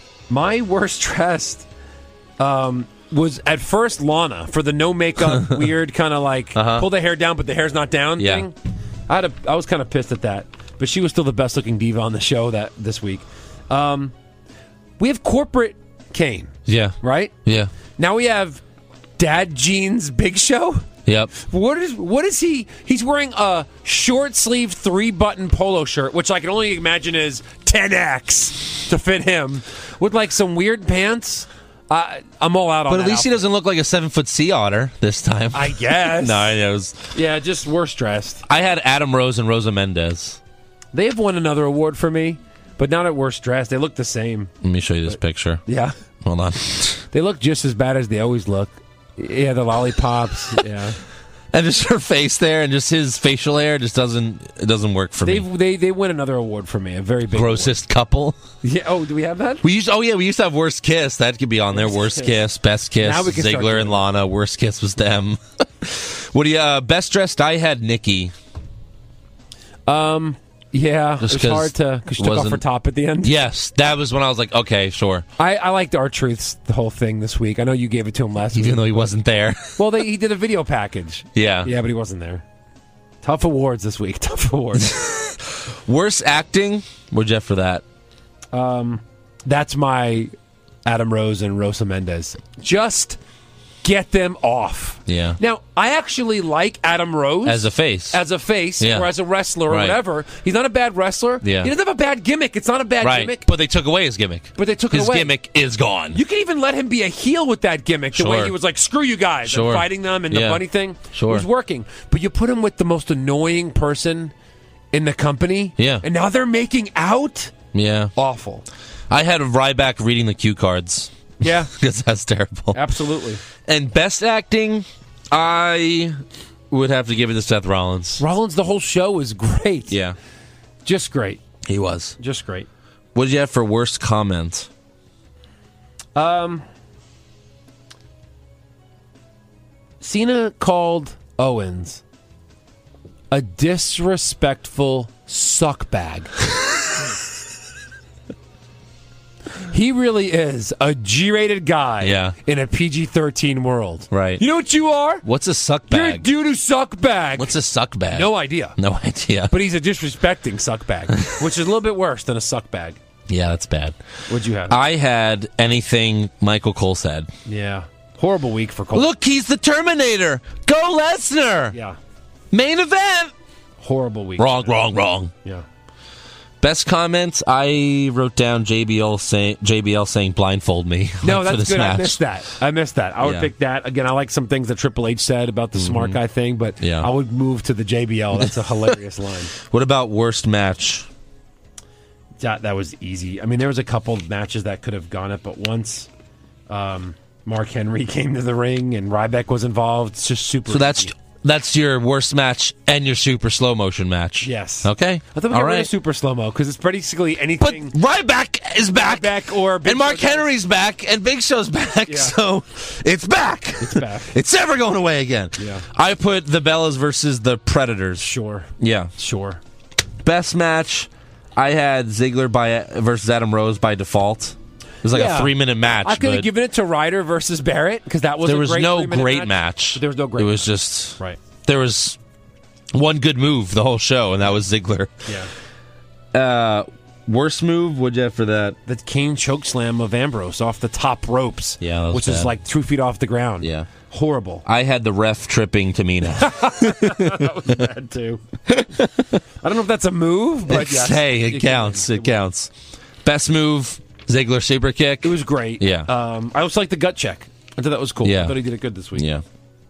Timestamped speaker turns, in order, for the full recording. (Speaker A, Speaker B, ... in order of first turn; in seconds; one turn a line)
Speaker A: 0.3-1.7
Speaker A: 2.4-8.6
Speaker B: 5.4-5.6
Speaker B: 6.5-6.9
Speaker B: 8.2-8.4
Speaker A: 9.1-14.1
Speaker A: 15.0-17.3
Speaker B: 16.7-17.7
Speaker A: 17.9-18.6
Speaker A: 19.2-33.4
Speaker B: 21.1-21.3
Speaker B: 32.9-37.0
Speaker A: 35.5-36.6
Speaker A: 37.1-38.4
Speaker B: 38.5-40.4
Speaker A: 40.9-44.5
Speaker B: 44.6-45.6
Speaker A: 45.6-45.9
Speaker B: 46.2-47.0
Speaker A: 47.1-51.0
Speaker B: 51.5-55.5
Speaker A: 55.2-57.8
Speaker B: 57.3-58.4
Speaker A: 58.6-59.6
Speaker B: 59.6-68.3
Speaker A: 61.8-62.3
Speaker A: 63.0-64.0
Speaker A: 69.9-73.3
Speaker B: 71.2-72.6
Speaker B: 73.2-75.2
Speaker A: 75.4-79.1
Speaker B: 78.5-79.8
Speaker A: 79.8-82.4
Speaker B: 81.3-81.7
Speaker A: 83.2-85.0
Speaker B: 84.8-87.8
Speaker A: 88.5-90.3
Speaker A: 90.8-93.2
Speaker A: 93.8-103.5
Speaker B: 95.1-95.4
Speaker B: 97.4-98.2
Speaker B: 98.8-99.1
Speaker B: 99.7-100.0
Speaker B: 101.4-101.7
Speaker B: 103.0-106.2
Speaker A: 104.5-105.3
Speaker A: 106.1-114.3
Speaker B: 108.1-108.5
Speaker B: 109.5-111.5
Speaker A: 114.9-117.5
Speaker B: 115.8-116.0
Speaker B: 117.7-118.1
Speaker A: 118.2-118.7
Speaker B: 119.1-121.1
Speaker A: 121.4-121.7
Speaker B: 121.7-122.8
Speaker A: 122.7-123.4
Speaker B: 123.7-128.2
Speaker A: 128.2-130.0
Speaker B: 129.9-130.2
Speaker A: 130.8-131.4
Speaker B: 131.7-132.2
Speaker A: 132.2-132.7
Speaker B: 133.1-134.7
Speaker A: 136.1-136.7
Speaker A: 140.0-142.0
Speaker A: 143.3-146.3
Speaker A: 149.7-155.2
Speaker B: 152.0-152.3
Speaker B: 154.1-154.4
Speaker B: 155.2-156.3
Speaker A: 155.9-157.5
Speaker B: 157.4-159.6
Speaker A: 158.1-158.8
Speaker A: 159.5-163.0
Speaker B: 161.1-161.4
Speaker B: 163.3-164.0
Speaker A: 164.3-164.8
Speaker B: 164.7-167.3
Speaker A: 167.4-169.1
Speaker B: 168.9-171.7
Speaker A: 171.7-172.0
Speaker B: 172.5-173.3
Speaker A: 173.8-174.7
Speaker B: 174.4-175.3
Speaker B: 176.6-182.2
Speaker A: 181.2-189.5
Speaker B: 183.2-183.5
Speaker B: 185.8-186.2
Speaker B: 186.8-187.1
Speaker B: 189.6-191.1
Speaker A: 192.4-196.1
Speaker A: 196.7-201.1
Speaker B: 200.7-205.9
Speaker A: 204.4-207.9
Speaker B: 207.6-219.1
Speaker A: 209.0-210.5
Speaker A: 212.1-212.3
Speaker A: 213.8-214.3
Speaker A: 215.6-215.8
Speaker A: 218.2-219.6
Speaker B: 220.2-226.5
Speaker A: 225.1-231.4
Speaker B: 228.4-232.2
Speaker B: 232.9-235.3
Speaker B: 236.3-238.8
Speaker A: 238.9-244.6
Speaker B: 241.8-242.5
Speaker B: 243.6-243.9
Speaker B: 244.7-247.9
Speaker A: 246.4-248.4
Speaker B: 248.7-249.3
Speaker A: 249.6-252.3
Speaker B: 250.7-252.7
Speaker B: 253.2-256.1
Speaker A: 255.2-259.2
Speaker B: 258.2-258.6
Speaker B: 259.1-259.4